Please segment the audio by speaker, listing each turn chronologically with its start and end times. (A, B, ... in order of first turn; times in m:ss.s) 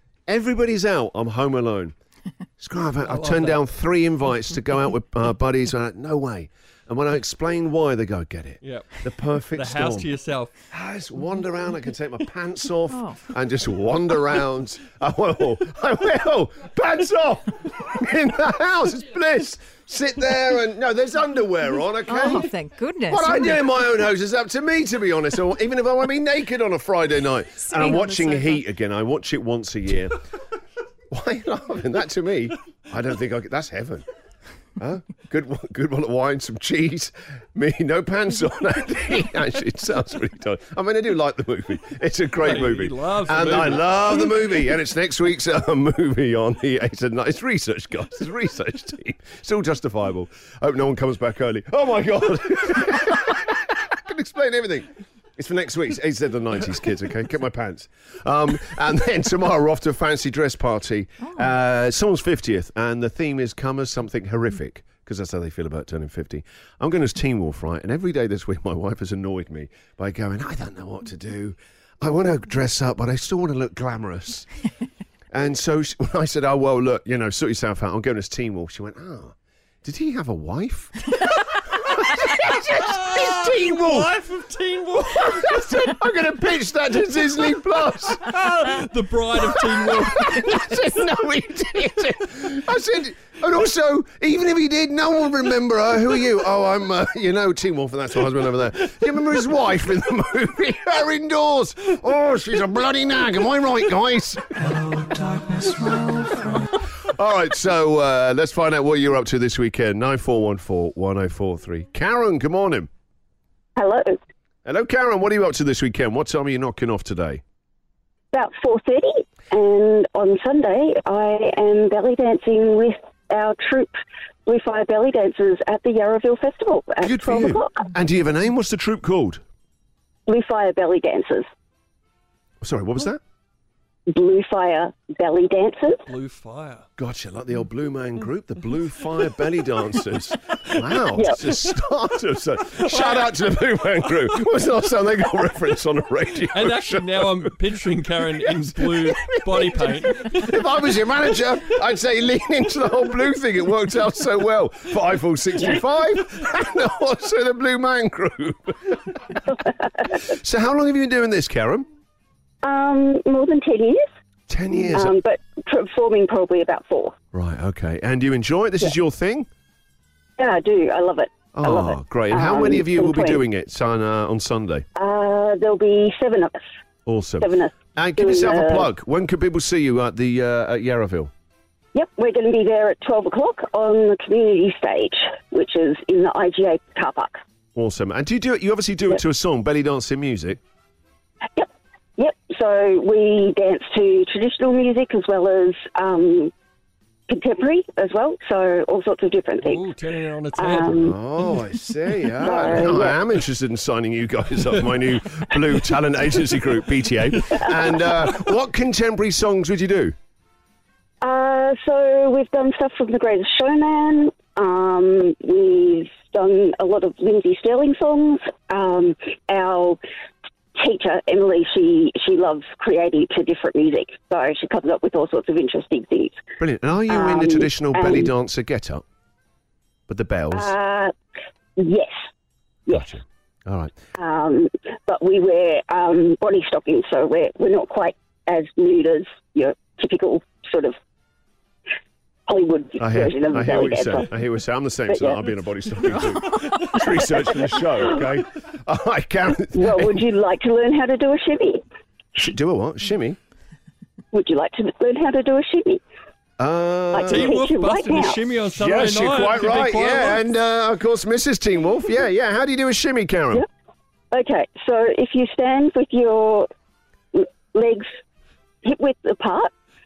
0:00.3-0:01.9 A
0:02.6-0:10.1 A
0:03.0-0:03.6 B
0:08.6-0:08.9 B
0:09.5-0:10.5 B
0:10.7-0:22.5 A
0:12.9-0:13.3 C
0:22.1-0:23.6 C
0:23.1-0:30.2 A
0:27.6-0:28.6 C
0:31.1-0:34.0 A
0:34.8-1:14.5 A
0:42.4-0:43.9 B
1:15.3-1:24.1 A
1:22.7-1:25.6 B
1:25.1-1:28.3 A
1:28.3-1:30.7 B
1:29.4-1:44.4 A
1:47.0-1:52.9 A
1:53.8-1:54.2 D
1:54.6-1:57.4 A
1:58.3-2:03.9 D
2:04.4-2:07.8 D
2:07.0-2:09.4 A
2:10.3-2:11.5 D
2:12.6-2:13.2 A
2:14.1-2:16.0 D
2:16.1-2:16.8 B
2:17.0-2:27.5 A
2:22.9-2:23.4 B
2:26.5-2:30.6 B
2:28.4-2:39.4 A
2:40.1-2:41.9 A
2:42.6-2:44.0 D
2:44.5-2:45.1 A
2:44.9-2:47.1 D
2:47.3-2:49.5 A
2:50.4-2:53.4 D
2:51.5-2:54.8 A
2:55.0-2:56.6 D
2:57.0-3:01.3 A
2:57.4-2:58.9 D
3:01.9-3:07.4 D
3:07.7-3:10.6 A
3:11.6-3:16.5 D
3:17.3-3:19.8 D
3:19.6-3:21.0 B
3:20.6-3:21.2 D
3:21.0-3:30.1 A
3:22.4-3:23.2 D
3:31.2-3:40.0 D
3:40.8-3:46.4 D
3:46.6-3:49.0 A
3:47.1-3:48.3 D
3:50.1-3:50.7 A
3:50.5-3:51.1 D
3:51.8-3:52.2 D
3:52.9-3:53.2 D
3:52.9-3:53.9 A
3:54.2-4:01.0 D
4:02.5-4:04.3 D
4:03.0-4:10.2 A
4:05.1-4:05.4 D
4:09.7-4:11.8 D
4:12.4-4:13.4 A
4:14.3-4:16.0 D
4:16.6-4:17.5 A
4:17.1-4:18.4 D
4:17.2-4:20.4 B
4:18.8-4:23.6 A
4:24.3-4:26.7 D
4:27.3-4:28.1 D
4:28.8-4:29.7 D